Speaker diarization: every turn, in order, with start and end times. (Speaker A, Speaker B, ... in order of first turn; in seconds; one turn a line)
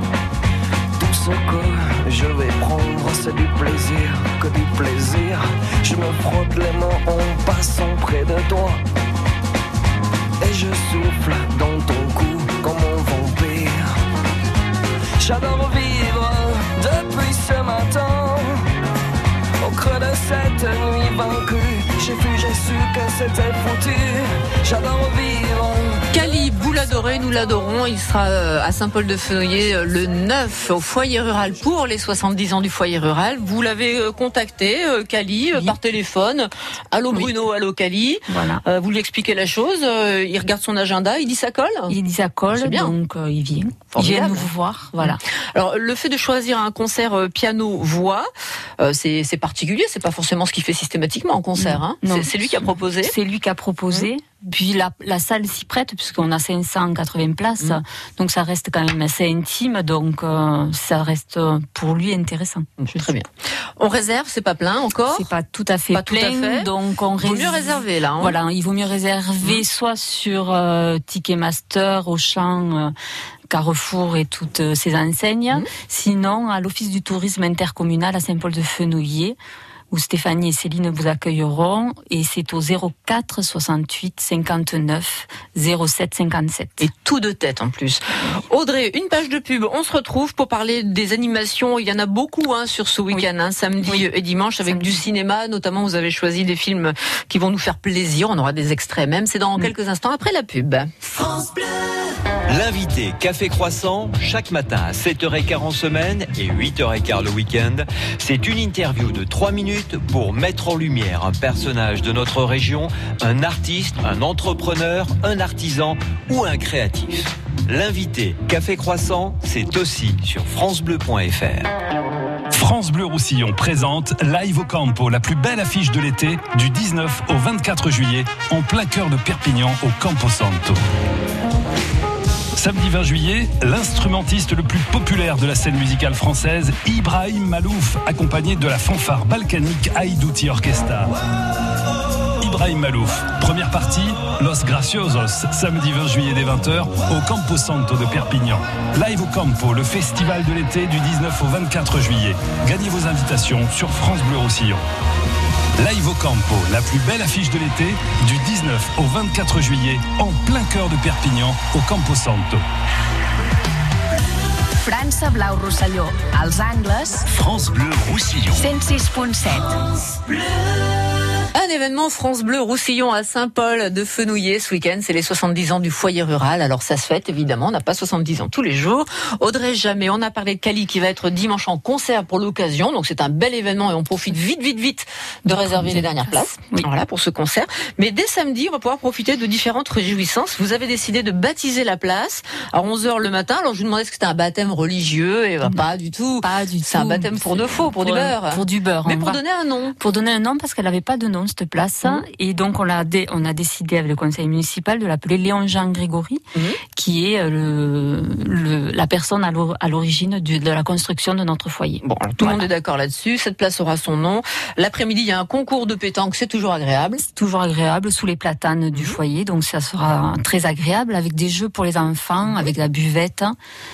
Speaker A: 1.0-8.8
Speaker A: 10.4-13.9
Speaker A: 15.2-18.6
Speaker A: 19.6-26.0
Speaker B: 26.1-41.9
Speaker C: 38.3-38.6
Speaker C: 41.9-45.2
Speaker B: 42.5-42.9
Speaker B: 43.9-48.3
Speaker B: 48.8-53.1
Speaker C: 51.5-63.1
Speaker B: 62.8-63.3
Speaker B: 63.8-65.3
Speaker C: 65.1-72.9
Speaker B: 65.9-68.4
Speaker C: 73.5-79.3
Speaker C: 79.9-86.9
Speaker B: 86.8-100.9
Speaker C: 94.6-95.0
Speaker D: 102.5-121.7
Speaker E: 122.5-130.8
Speaker E: 132.6-141.1
Speaker E: 142.4-154.8
Speaker E: 155.8-162.6
Speaker F: 164.8-167.3
Speaker F: 168.5-169.8
Speaker B: 171.5-199.9
Speaker C: 185.5-186.8
Speaker C: 196.4-199.4
Speaker C: 200.0-206.4
Speaker B: 206.5-206.8
Speaker C: 206.9-212.6
Speaker B: 212.0-217.2
Speaker C: 217.2-223.5
Speaker B: 218.9-219.2
Speaker B: 222.5-222.7